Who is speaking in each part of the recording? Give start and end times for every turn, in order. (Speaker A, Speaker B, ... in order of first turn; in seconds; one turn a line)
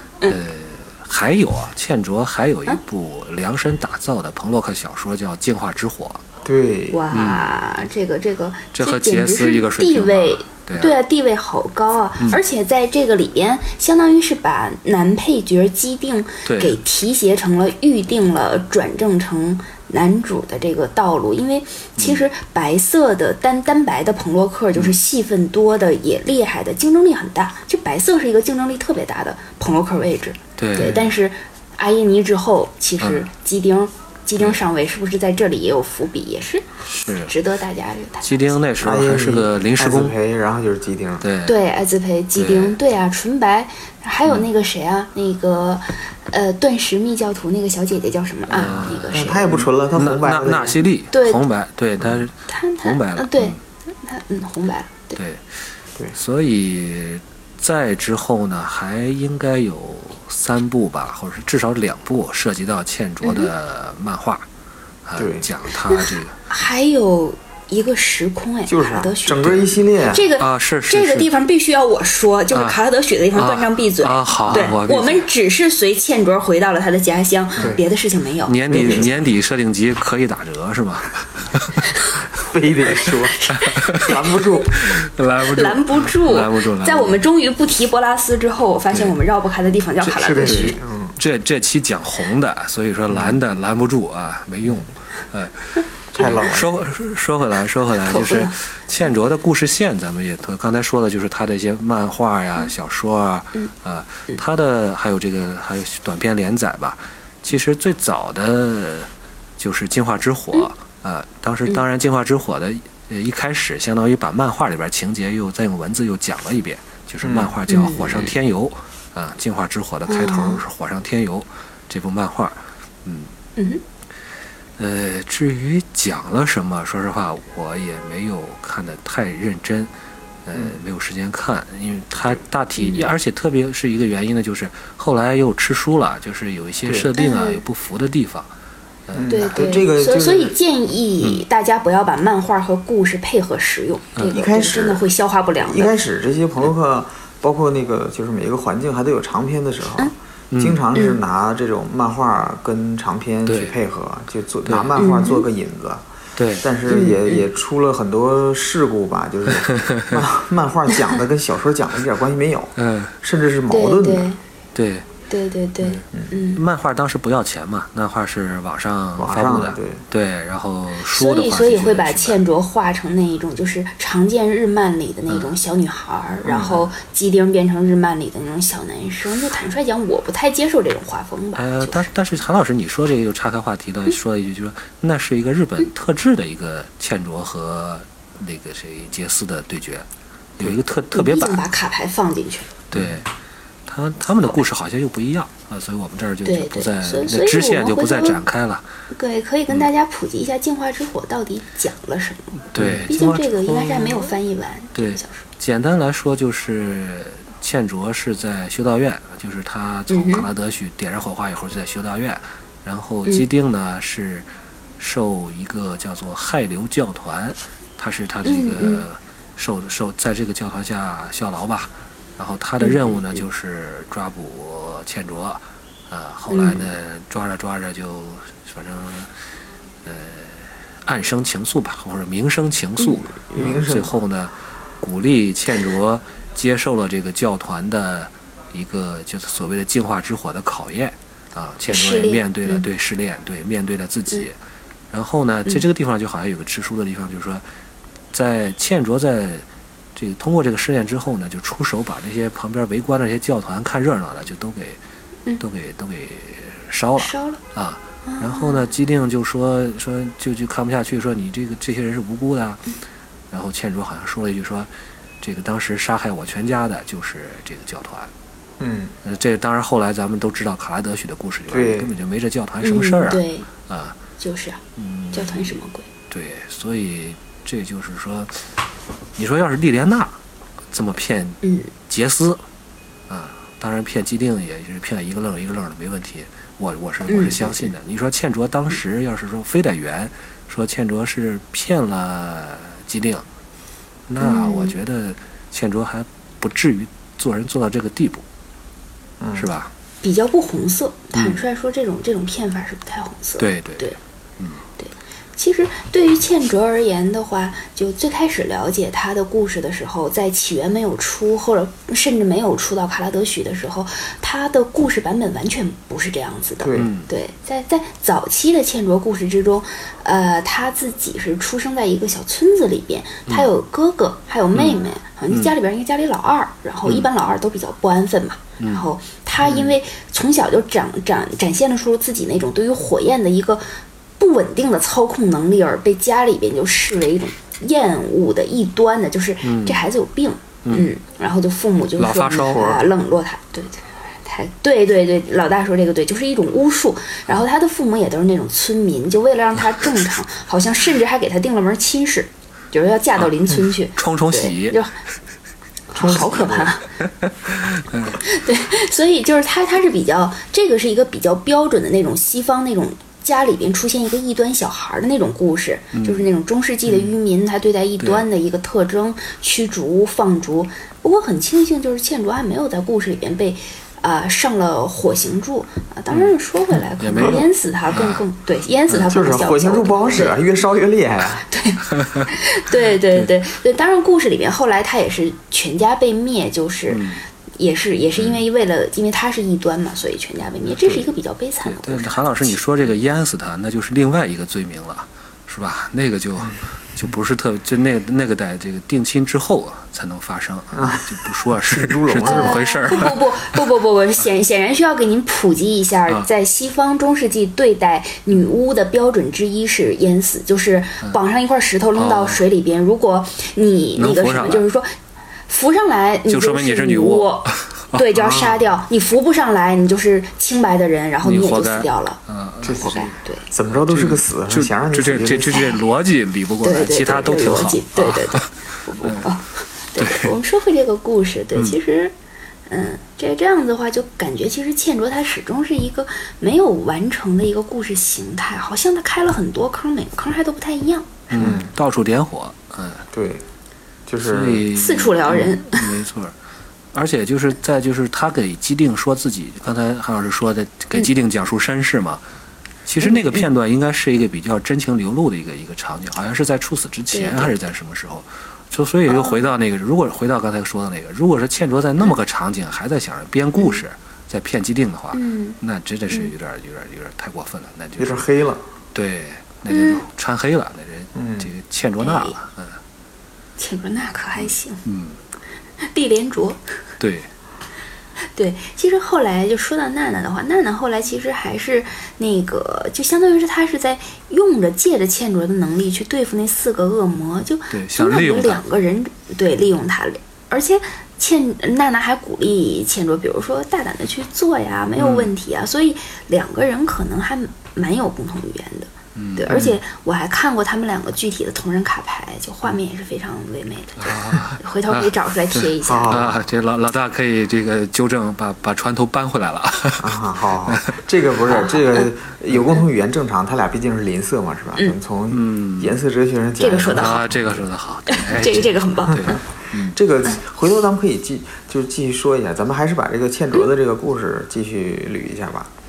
Speaker A: 0.3-6.2
Speaker B: 6.4-7.1
Speaker C: 6.9-36.6
Speaker A: 7.1-7.6
Speaker A: 8.7-11.0
Speaker A: 16.4-16.8
Speaker A: 22.0-22.3
Speaker A: 30.6-31.1
Speaker A: 33.0-33.3
Speaker A: 36.9-37.3
Speaker C: 37.3-38.5
Speaker A: 38.2-40.1
Speaker B: 38.8-41.3
Speaker A: 41.2-41.6
Speaker C: 41.4-49.6
Speaker A: 42.4-42.8
Speaker A: 48.5-53.6
Speaker B: 49.1-50.8
Speaker C: 51.1-51.4
Speaker C: 52.5-55.2
Speaker A: 55.1-55.6
Speaker A: 56.1-64.5
Speaker C: 63.2-63.5
Speaker A: 65.0-66.3
Speaker B: 65.2-65.5
Speaker C: 65.8-79.0
Speaker B: 68.7-70.3
Speaker A: 70.4-71.3
Speaker A: 72.5-72.8
Speaker A: 73.3-75.2
Speaker A: 78.4-81.9
Speaker B: 78.7-79.1
Speaker B: 82.4-83.4
Speaker C: 83.0-90.8
Speaker A: 83.5-84.1
Speaker B: 83.9-84.8
Speaker A: 84.7-87.2
Speaker A: 90.0-123.3
Speaker B: 90.2-91.2
Speaker B: 93.1-93.4
Speaker B: 96.1-96.8
Speaker C: 98.0-98.5
Speaker B: 117.2-117.5
Speaker C: 117.7-118.3
Speaker C: 120.1-120.6
Speaker C: 123.6-123.8
Speaker A: 124.8-129.9
Speaker A: 130.4-138.5
Speaker C: 132.8-133.1
Speaker C: 137.2-137.6
Speaker A: 139.1-139.6
Speaker B: 139.1-140.5
Speaker C: 139.3-145.9
Speaker B: 144.3-145.0
Speaker B: 145.6-156.0
Speaker A: 150.5-150.8
Speaker A: 153.4-153.7
Speaker A: 154.7-154.9
Speaker C: 154.9-155.4
Speaker A: 156.4-156.6
Speaker B: 156.6-164.3
Speaker C: 156.9-157.4
Speaker A: 159.6-160.2
Speaker A: 162.8-163.1
Speaker C: 163.7-164.4
Speaker A: 164.7-165.1
Speaker C: 165.3-166.6
Speaker A: 165.8-172.4
Speaker B: 169.2-170.0
Speaker C: 171.1-182.1
Speaker A: 175.3-175.5
Speaker B: 176.4-176.9
Speaker A: 181.6-190.1
Speaker A: 190.6-191.6
Speaker C: 191.1-192.8
Speaker A: 192.9-193.3
Speaker B: 192.9-193.2
Speaker A: 193.9-198.9
Speaker C: 196.4-198.4
Speaker C: 199.1-205.4
Speaker A: 202.7-204.3
Speaker A: 204.9-214.4
Speaker C: 210.1-210.5
Speaker A: 215.0-229.3
Speaker C: 218.4-219.0
Speaker C: 222.8-223.4
Speaker C: 226.5-226.9
Speaker A: 230.0-244.6
Speaker C: 233.0-233.7
Speaker B: 233.6-234.1
Speaker C: 241.9-242.8
Speaker A: 245.1-247.6
Speaker A: 248.3-249.6
Speaker A: 250.2-255.0
Speaker A: 255.6-262.8
Speaker C: 257.2-257.6
Speaker C: 258.2-258.9
Speaker A: 263.5-264.9
Speaker A: 265.4-268.3
Speaker B: 268.8-269.1
Speaker A: 269.2-274.2
Speaker B: 271.7-272.1
Speaker C: 272.8-273.7
Speaker C: 274.4-274.8
Speaker A: 275.0-275.8
Speaker C: 275.3-276.1
Speaker A: 276.3-278.6
Speaker A: 279.4-280.4
Speaker A: 280.9-282.6
Speaker C: 281.6-281.9
Speaker A: 283.3-293.4
Speaker C: 287.3-287.7
Speaker A: 294.3-298.4
Speaker C: 294.4-294.9
Speaker B: 299.4-299.7
Speaker A: 299.5-299.9
Speaker C: 300.2-304.2
Speaker A: 301.3-301.6
Speaker A: 303.6-304.8
Speaker C: 305.0-333.8
Speaker B: 316.8-317.1
Speaker A: 316.9-317.3
Speaker A: 324.7-325.7
Speaker A: 328.8-329.1
Speaker A: 329.6-329.9
Speaker C: 334.4-355.1
Speaker A: 339.6-340.0
Speaker A: 340.8-341.1
Speaker A: 342.2-343.0
Speaker A: 354.1-355.0
Speaker C: 356.1-357.0
Speaker B: 356.1-356.9
Speaker A: 356.2-356.5
Speaker A: 357.2-358.4
Speaker C: 358.4-380.6
Speaker A: 366.1-366.4
Speaker A: 368.2-368.4
Speaker A: 377.2-378.4
Speaker B: 377.4-377.6
Speaker B: 379.2-381.7
Speaker C: 381.7-392.8
Speaker A: 382.1-382.5
Speaker A: 387.1-387.4
Speaker A: 388.4-388.6
Speaker A: 391.8-403.4
Speaker B: 400.9-402.8
Speaker C: 402.4-415.1
Speaker A: 412.1-412.6
Speaker A: 414.1-414.8
Speaker C: 415.7-423.7
Speaker A: 416.5-418.2
Speaker B: 418.3-418.8
Speaker A: 421.4-423.4
Speaker B: 422.8-423.1
Speaker B: 423.7-425.9
Speaker A: 423.9-429.5
Speaker C: 426.8-432.3
Speaker A: 430.2-430.5
Speaker C: 432.9-441.6
Speaker A: 441.5-443.3
Speaker B: 441.6-441.9
Speaker B: 443.3-443.6
Speaker B: 444.3-444.8
Speaker A: 444.4-446.5
Speaker C: 444.9-446.1
Speaker A: 447.1-452.4
Speaker A: 453.1-468.4
Speaker C: 453.2-453.6
Speaker C: 457.3-457.7
Speaker C: 459.3-459.7
Speaker C: 465.3-465.8
Speaker B: 468.2-468.8
Speaker A: 469.1-473.0
Speaker C: 469.9-470.2
Speaker B: 471.3-471.7
Speaker C: 472.2-472.6
Speaker C: 473.8-475.0
Speaker A: 474.6-475.4
Speaker C: 476.0-476.8
Speaker A: 477.2-477.5
Speaker C: 478.5-506.5
Speaker A: 487.9-488.8
Speaker A: 495.1-495.5
Speaker A: 499.3-499.8
Speaker B: 499.7-500.0
Speaker A: 504.2-511.2
Speaker B: 506.0-506.6
Speaker B: 510.2-517.7
Speaker C: 511.7-512.3
Speaker A: 515.5-516.1
Speaker C: 516.8-517.5
Speaker A: 517.1-520.1
Speaker C: 518.3-519.6
Speaker B: 520.1-525.9